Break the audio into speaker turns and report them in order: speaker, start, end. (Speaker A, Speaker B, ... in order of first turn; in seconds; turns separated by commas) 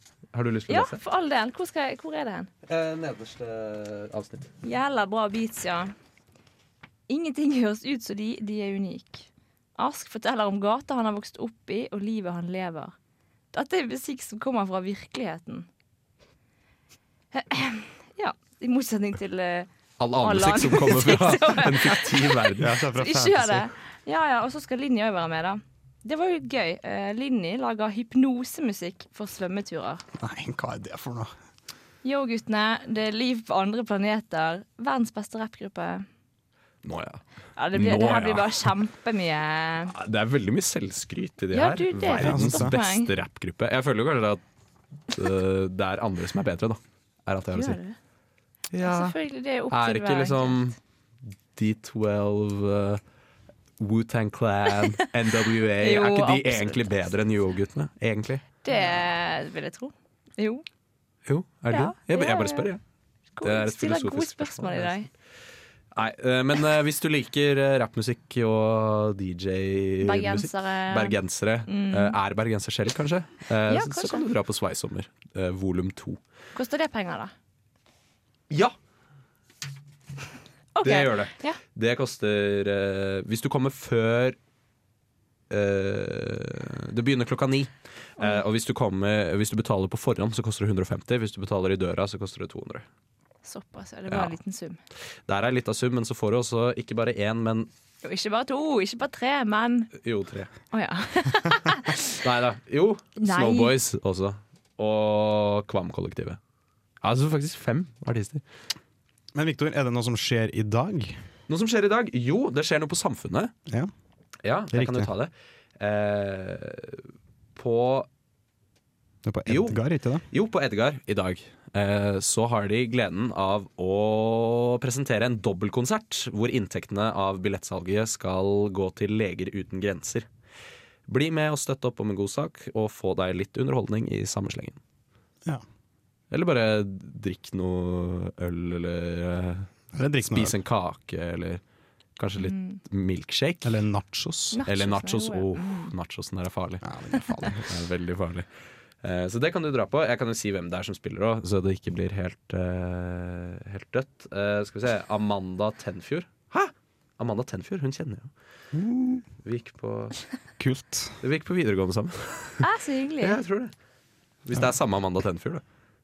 Speaker A: 0.3-1.0, Speaker B: 0.7-2.5, Speaker A: 2.6-4.5, Speaker B: 4.6-5.9, Speaker B: 7.1-12.9, Speaker B: 13.5-15.7, Speaker B: 17.3-19.7, Speaker A: 20.0-22.7, Speaker B: 20.2-30.0, Speaker C: 22.6-23.6, Speaker C: 30.1-31.3, Speaker B: 32.0-36.0, Speaker A: 36.8-38.7, Speaker B: 37.6-39.9, Speaker A: 39.9-44.4, Speaker B: 41.5-43.1, Speaker C: 42.1-42.7, Speaker A: 45.1-47.8, Speaker B: 47.5-48.0, Speaker A: 48.7-49.1, Speaker B: 48.8-50.6, Speaker A: 49.7-50.8, Speaker A: 51.5-53.0, Speaker A: 53.8-58.4, Speaker B: 55.8-56.9, Speaker B: 58.6-60.6, Speaker A: 61.2-62.8, Speaker B: 61.7-62.7, Speaker B: 63.3-65.1, Speaker A: 63.4-64.9, Speaker A: 65.9-76.2, Speaker B: 70.0-71.2, Speaker B: 71.7-72.2, Speaker B: 73.7-74.3, Speaker B: 76.5-77.3, Speaker A: 78.5-78.7, Speaker B: 80.8-81.6, Speaker A: 80.8-84.4, Speaker A: 85.5-92.8, Speaker B: 88.2-88.4, Speaker B: 93.4-94.8, Speaker A: 95.3-97.7, Speaker B: 98.0-99.9, Speaker A: 99.9-100.5, Speaker B: 100.7-102.2, Speaker A: 102.2-106.4, Speaker B: 103.2-103.7, Speaker A: 107.0-108.4, Speaker C: 109.3-111.2, Speaker A: 111.5-113.5, Speaker A: 114.4-118.1, Speaker C: 114.7-115.1, Speaker C: 119.2-120.2, Speaker A: 119.5-119.8, Speaker A: 120.3-130.3, Speaker A: 131.1-134.8, Speaker A: 136.3-139.7, Speaker C: 139.9-140.6, Speaker A: 140.2-141.6, Speaker A: 142.2-143.8, Speaker B: 142.4-142.8, Speaker C: 143.6-144.6, Speaker B: 144.5-145.9, Speaker A: 144.7-146.9, Speaker C: 146.8-147.7, Speaker A: 147.5-148.4, Speaker A: 149.0-158.3, Speaker C: 158.7-159.2, Speaker A: 159.4-160.2, Speaker C: 160.6-161.2, Speaker A: 161.2-162.7, Speaker B: 162.6-163.4, Speaker A: 163.2-163.7, Speaker A: 164.4-165.6